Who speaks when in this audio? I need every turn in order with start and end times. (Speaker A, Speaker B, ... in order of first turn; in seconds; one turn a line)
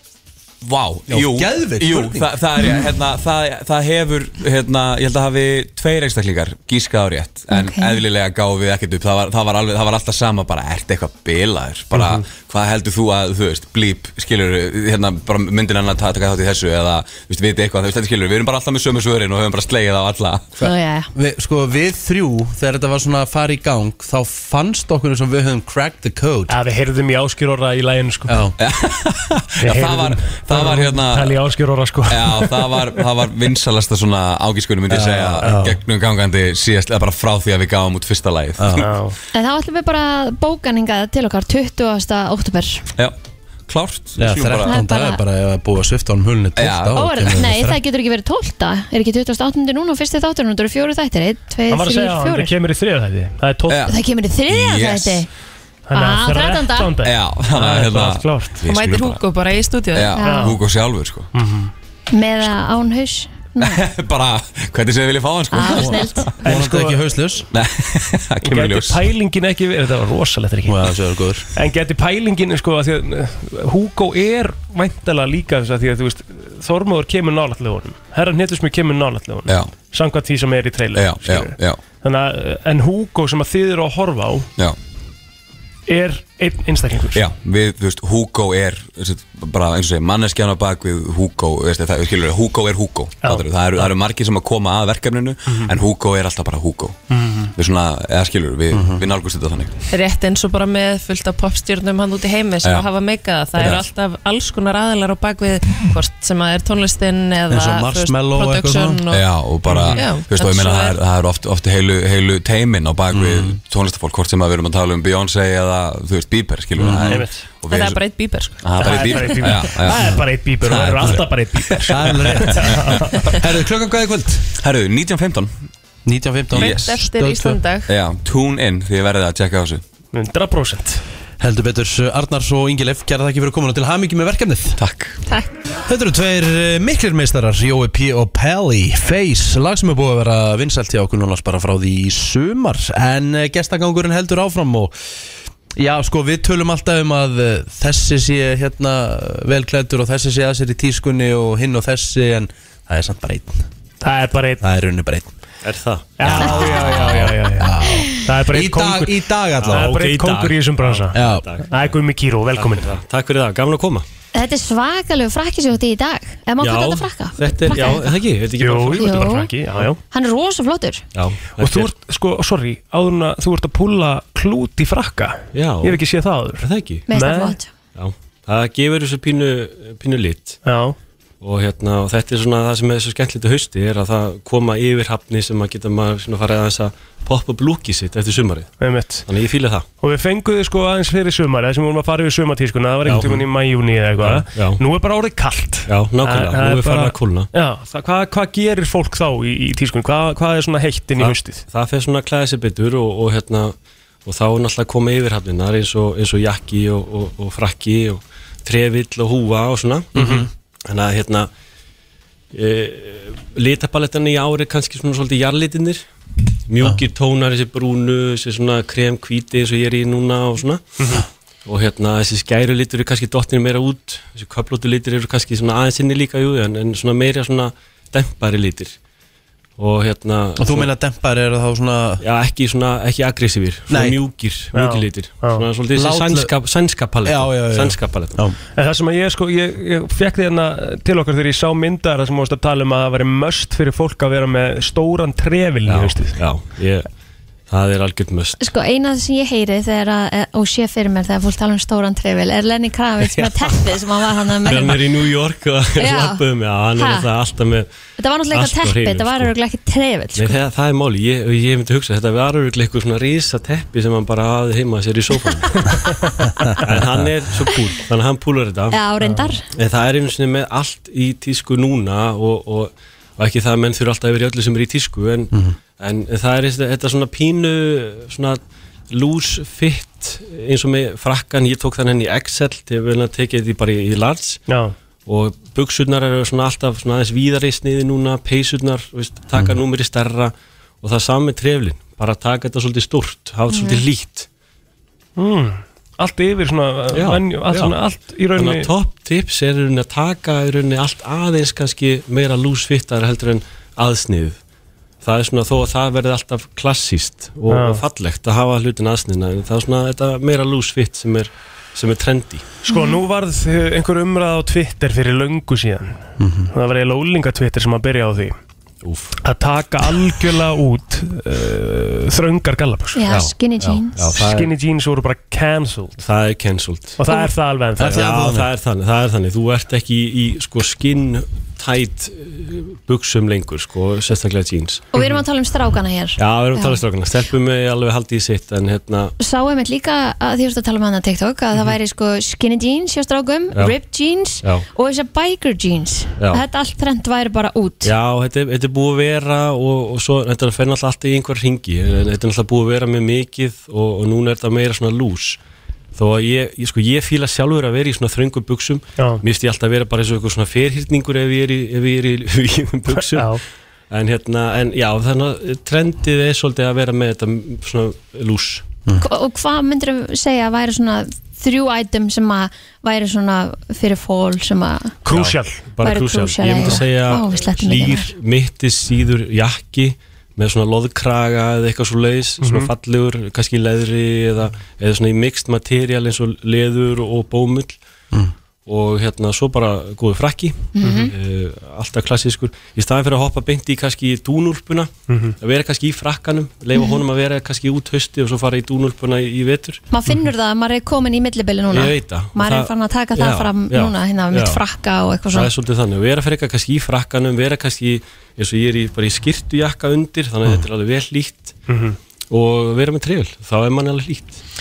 Speaker A: 0.6-20.5
Speaker B: 1.1-2.3
Speaker C: 7.5-8.0
Speaker B: 20.6-26.6
Speaker C: 20.6-21.1
Speaker D: 26.5-28.4
Speaker B: 28.3-28.5
Speaker A: 28.6-31.4
Speaker D: 29.6-32.9
Speaker A: 32.1-38.9
Speaker B: 34.9-35.7
Speaker D: 35.4-35.7
Speaker B: 38.6-38.9
Speaker D: 38.8-39.2
Speaker C: 39.3-42.9
Speaker A: 43.7-44.8
Speaker B: 44.2-47.8
Speaker C: 44.7-45.2
Speaker A: 46.6-47.1
Speaker C: 47.0-52.5
Speaker D: 51.7-53.9
Speaker A: 53.7-54.0
Speaker C: 53.9-55.3
Speaker A: 54.5-55.3
Speaker D: 55.9-58.6
Speaker C: 55.9-57.0
Speaker A: 57.0-59.2
Speaker E: 58.7-60.2
Speaker A: 59.9-61.3
Speaker C: 60.2-60.6
Speaker D: 60.2-60.6
Speaker D: 61.3-61.7
Speaker C: 62.1-63.8
Speaker A: 63.6-66.3
Speaker C: 65.5-66.3
Speaker D: 66.4-67.1
Speaker B: 66.5-67.5
Speaker A: 67.5-69.0
Speaker D: 68.4-70.9
Speaker B: 70.7-71.5
Speaker D: 71.5-84.5
Speaker A: 79.5-79.7
Speaker A: 80.9-81.8
Speaker D: 85.9-87.2
Speaker A: 87.1-97.0
Speaker D: 93.2-93.9
Speaker D: 97.1-97.5
Speaker A: 97.6-99.7
Speaker B: 98.7-99.0
Speaker E: 99.9-109.3
Speaker A: 102.6-102.9
Speaker A: 103.6-103.8
Speaker B: 107.5-109.0
Speaker A: 109.1-118.0
Speaker D: 109.7-110.0
Speaker E: 109.9-111.0
Speaker B: 113.1-113.6
Speaker B: 116.8-117.2
Speaker D: 117.0-117.5
Speaker E: 117.7-119.4
Speaker A: 118.6-123.4
Speaker D: 118.8-123.3
Speaker B: 121.9-124.5
Speaker A: 124.6-125.5
Speaker B: 126.1-127.6
Speaker A: 126.5-126.9
Speaker E: 126.5-127.9
Speaker A: 127.9-129.8
Speaker D: 130.1-131.0
Speaker B: 131.4-134.8
Speaker A: 134.8-135.2
Speaker E: 135.3-135.6
Speaker B: 135.9-144.9
Speaker B: 145.7-153.7
Speaker D: 154.0-154.6
Speaker B: 154.6-155.3
Speaker F: 155.6-156.5
Speaker D: 156.2-161.2
Speaker C: 156.3-157.2
Speaker B: 156.4-156.8
Speaker B: 157.6-159.9
Speaker F: 159.6-162.0
Speaker B: 161.1-161.4
Speaker D: 161.7-163.0
Speaker F: 162.6-164.1
Speaker C: 164.3-168.1
Speaker F: 166.6-169.9
Speaker D: 168.6-170.0
Speaker C: 169.0-169.5
Speaker C: 170.1-171.0
Speaker F: 171.1-171.9
Speaker D: 171.6-177.6
Speaker F: 175.5-176.0
Speaker F: 176.6-177.1
Speaker C: 177.1-177.7
Speaker F: 177.9-180.6
Speaker D: 180.7-181.0
Speaker F: 181.4-188.7
Speaker D: 188.8-189.2
Speaker F: 189.3-189.9
Speaker D: 190.0-201.6
Speaker F: 193.1-193.5
Speaker F: 194.2-194.8
Speaker F: 195.9-197.5
Speaker F: 201.2-211.5
Speaker B: 210.2-210.5
Speaker D: 210.2-210.4
Speaker F: 212.5-216.1
Speaker F: 216.7-220.8
Speaker F: 221.7-229.0
Speaker F: 229.8-230.9
Speaker B: 230.6-232.2
Speaker F: 232.2-238.4
Speaker B: 233.9-234.2
Speaker D: 234.7-235.7
Speaker B: 235.9-236.5
Speaker B: 237.2-238.6
Speaker D: 238.8-246.4
Speaker F: 245.9-247.1
Speaker F: 247.7-248.6
Speaker C: 248.6-255.0
Speaker F: 253.2-254.0
Speaker F: 254.6-257.9
Speaker C: 256.0-256.4
Speaker C: 256.9-257.3
Speaker C: 258.2-260.6
Speaker F: 258.5-259.5
Speaker F: 260.4-266.1
Speaker F: 266.8-269.0
Speaker C: 268.9-269.6
Speaker F: 269.7-284.6
Speaker D: 284.7-284.9
Speaker F: 285.2-294.5
Speaker C: 293.7-294.0
Speaker D: 295.4-298.9
Speaker F: 297.1-298.0
Speaker F: 298.6-304.6
Speaker F: 305.2-312.7
Speaker D: 307.7-308.0
Speaker D: 312.9-316.2
Speaker C: 312.9-313.2
Speaker B: 316.4-316.7
Speaker D: 316.7-318.6
Speaker F: 319.0-319.4
Speaker D: 319.4-323.2
Speaker C: 323.1-324.4
Speaker F: 323.3-324.7
Speaker D: 324.4-326.2
Speaker F: 326.2-327.2
Speaker D: 327.2-328.3
Speaker B: 328.0-328.7
Speaker F: 328.0-335.4
Speaker C: 335.1-337.0
Speaker F: 336.4-339.3
Speaker C: 339.4-348.1
Speaker F: 346.4-346.6
Speaker F: 348.0-355.6
Speaker F: 356.1-363.6
Speaker D: 363.1-363.6
Speaker F: 364.1-368.9
Speaker C: 369.2-375.2
Speaker D: 375.2-375.8
Speaker F: 375.3-388.0
Speaker C: 376.0-378.3
Speaker D: 382.6-382.9
Speaker F: 388.9-400.0
Speaker C: 391.0-391.3
Speaker D: 391.0-391.3
Speaker D: 395.3-395.6
Speaker C: 396.9-397.2
Speaker C: 400.1-405.7
Speaker F: 401.9-404.8
Speaker F: 405.5-411.8
Speaker D: 411.9-412.2
Speaker F: 412.5-414.6